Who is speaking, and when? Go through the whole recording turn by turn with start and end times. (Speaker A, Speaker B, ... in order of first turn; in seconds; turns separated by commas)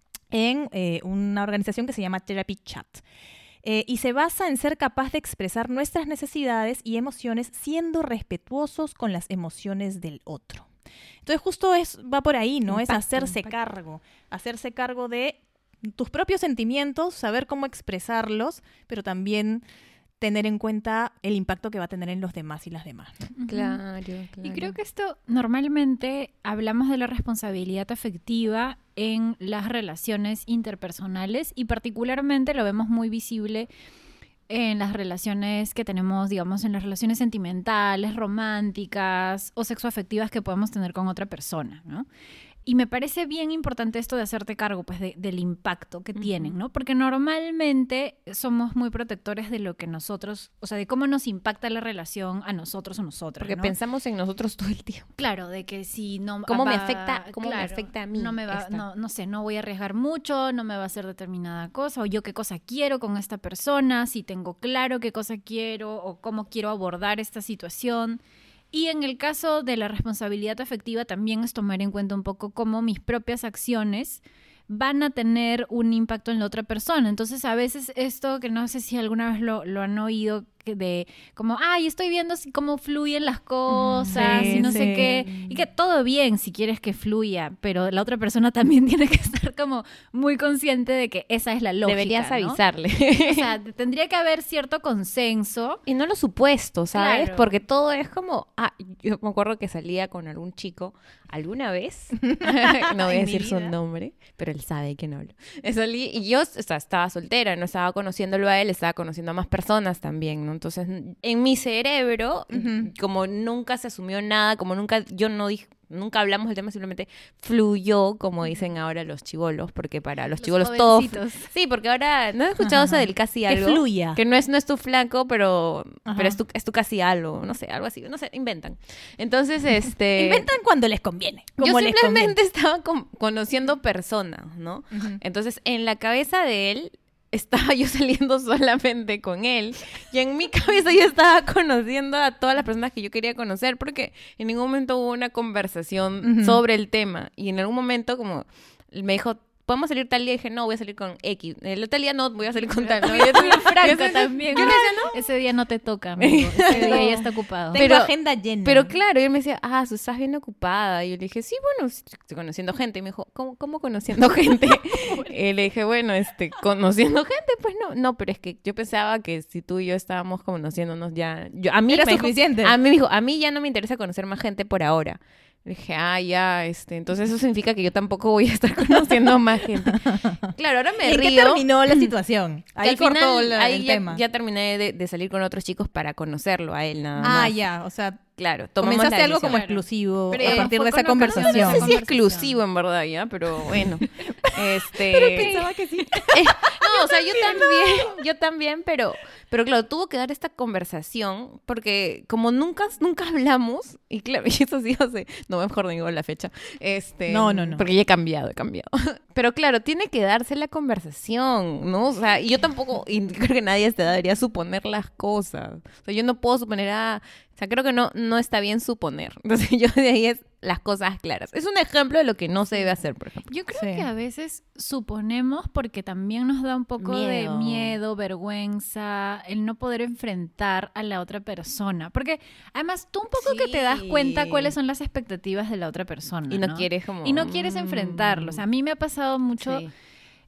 Speaker A: 0.3-3.0, Speaker A: 3.6-10.7, Speaker A: 11.2-19.6, Speaker B: 12.7-13.5, Speaker A: 20.2-23.3, Speaker C: 23.4-23.8, Speaker B: 23.5-24.8, Speaker C: 24.4-33.7, Speaker C: 34.5-42.1, Speaker C: 42.6-53.8, Speaker B: 46.1-46.5, Speaker B: 53.4-55.1, Speaker C: 55.2-68.2, Speaker B: 56.5-58.8, Speaker C: 68.7-92.6, Speaker A: 83.7-85.2, Speaker B: 84.1-85.6, Speaker B: 91.8-93.5, Speaker C: 93.2-95.8, Speaker B: 95.9-130.5, Speaker C: 96.9-97.5, Speaker A: 102.3-103.8, Speaker A: 112.5-112.9, Speaker C: 120.4-121.5, Speaker A: 122.6-124.2, Speaker A: 126.1-126.4, Speaker A: 130.2-132.4, Speaker B: 131.6-155.2, Speaker A: 134.9-135.2, Speaker A: 146.2-146.6, Speaker C: 152.8-157.9, Speaker A: 154.5-155.1, Speaker B: 156.2-182.1, Speaker A: 156.7-158.9, Speaker A: 171.9-172.8, Speaker A: 179.8-184.2, Speaker B: 182.8-187.6, Speaker A: 187.2-188.2, Speaker B: 188.4-189.6, Speaker A: 188.8-191.9, Speaker C: 189.5-192.5, Speaker B: 190.3-195.6, Speaker A: 195.1-198.1, Speaker C: 195.2-196.3, Speaker B: 196.3-223.5, Speaker A: 207.3-207.8, Speaker C: 223.5-239.9, Speaker A: 223.8-224.1, Speaker B: 227.0-227.9, Speaker B: 233.3-234.7, Speaker B: 236.5-238.6, Speaker B: 239.6-239.9